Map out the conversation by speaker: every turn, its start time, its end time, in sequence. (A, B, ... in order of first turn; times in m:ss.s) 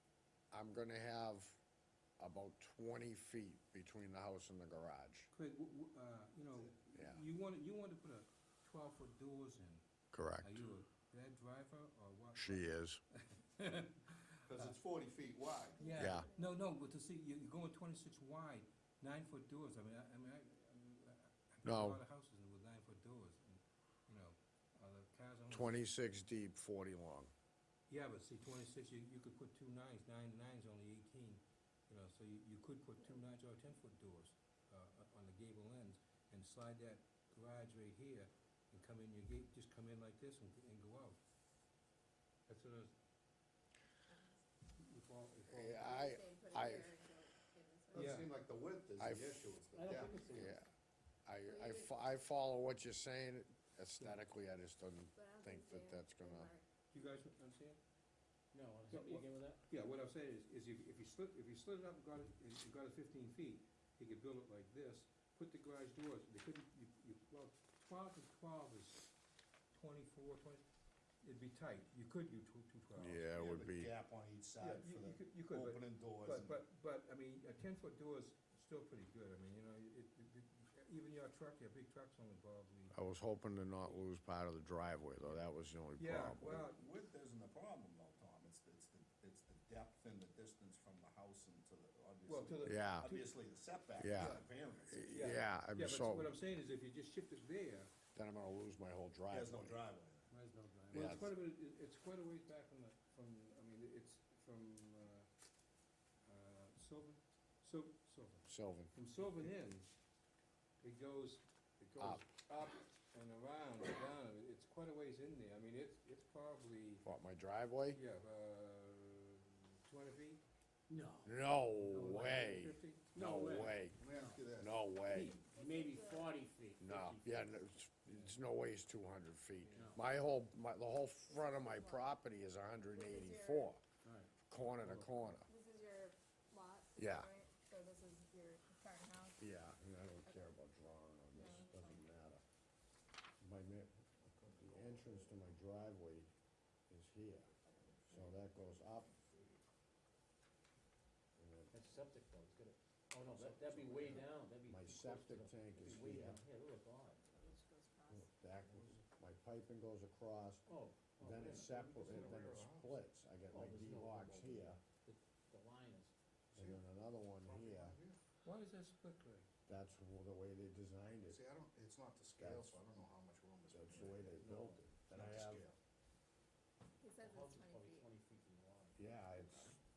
0:00.5-0:01.6 A
0:02.2-0:05.3 A
0:05.3-0:09.8 B
0:06.9-0:07.2 A
0:10.1-0:10.7 A
0:10.4-0:14.7 B
0:12.4-0:13.0 A
0:14.5-0:15.9 C
0:15.8-0:16.7 D
0:15.8-0:25.8 B
0:16.0-0:16.3 A
0:21.6-0:22.0 A
0:25.5-0:27.3 A
0:27.9-0:41.2 B
0:42.5-0:42.9 B
0:44.1-0:44.4 D
0:44.8-0:45.9 B
0:45.5-0:47.0 A
0:45.7-0:48.2 D
0:47.9-0:50.3 C
0:47.9-0:48.3 B
0:49.0-0:49.6 A
0:49.7-0:50.6 E
0:50.3-0:50.7 A
0:51.3-0:56.5 A
0:51.4-0:51.9 D
0:55.1-0:56.6 D
0:56.9-0:57.8 B
0:58.5-0:59.6 E
0:58.9-1:09.1 B
1:09.7-1:10.6 B
1:11.2-1:13.2 B
1:13.0-1:13.9 A
1:13.3-1:16.6 C
1:14.6-1:23.0 B
1:22.9-1:26.7 A
1:26.0-1:26.8 B
1:26.5-1:35.4 C
1:32.3-1:33.3 B
1:32.6-1:33.1 A
1:34.0-1:36.3 A
1:35.1-1:37.9 B
1:38.1-1:39.8 A
1:39.3-1:40.3 C
1:40.3-1:41.3 E
1:40.9-1:41.3 A
1:40.9-1:45.3 B
1:46.2-1:49.9 B
1:48.5-1:48.9 A
1:50.8-1:57.0 B
1:51.9-1:52.2 E
1:57.0-1:58.0 A
1:57.9-2:00.4 B
2:00.9-2:01.4 E
2:01.2-2:05.4 A
2:01.5-2:03.1 B
2:03.1-2:04.4 E
2:04.0-2:04.7 C
2:05.0-2:06.4 D
2:05.1-2:07.6 E
2:06.8-2:13.8 A
2:09.6-2:10.2 B
2:09.7-2:10.0 E
2:11.3-2:12.1 D
2:12.9-2:13.8 D
2:14.0-2:15.1 E
2:14.5-2:15.5 A
2:15.4-2:19.5 D
2:17.0-2:17.3 A
2:19.4-2:22.4 A
2:20.2-2:20.6 D
2:21.3-2:22.0 D
2:23.4-2:26.3 A
2:24.2-2:25.4 C
2:26.9-2:27.5 A
2:27.7-2:28.2 D
2:28.1-2:29.1 A
2:29.3-2:29.5 C
2:31.4-2:31.8 A
2:31.7-2:37.2 E
2:33.5-2:36.4 A
2:37.2-2:38.3 D
2:38.1-2:40.7 A
2:40.7-2:42.5 E
2:41.2-2:44.8 A
2:41.5-2:43.0 C
2:43.5-2:46.1 E
2:46.5-2:46.8 C
2:46.5-2:48.0 A
2:47.4-2:48.2 C
2:48.4-2:49.5 B
2:49.7-2:51.4 A
2:51.3-2:55.8 C
2:52.4-2:52.8 A
2:53.7-2:55.6 A
2:57.0-2:58.1 D
2:57.2-2:59.1 E
2:59.0-2:59.8 A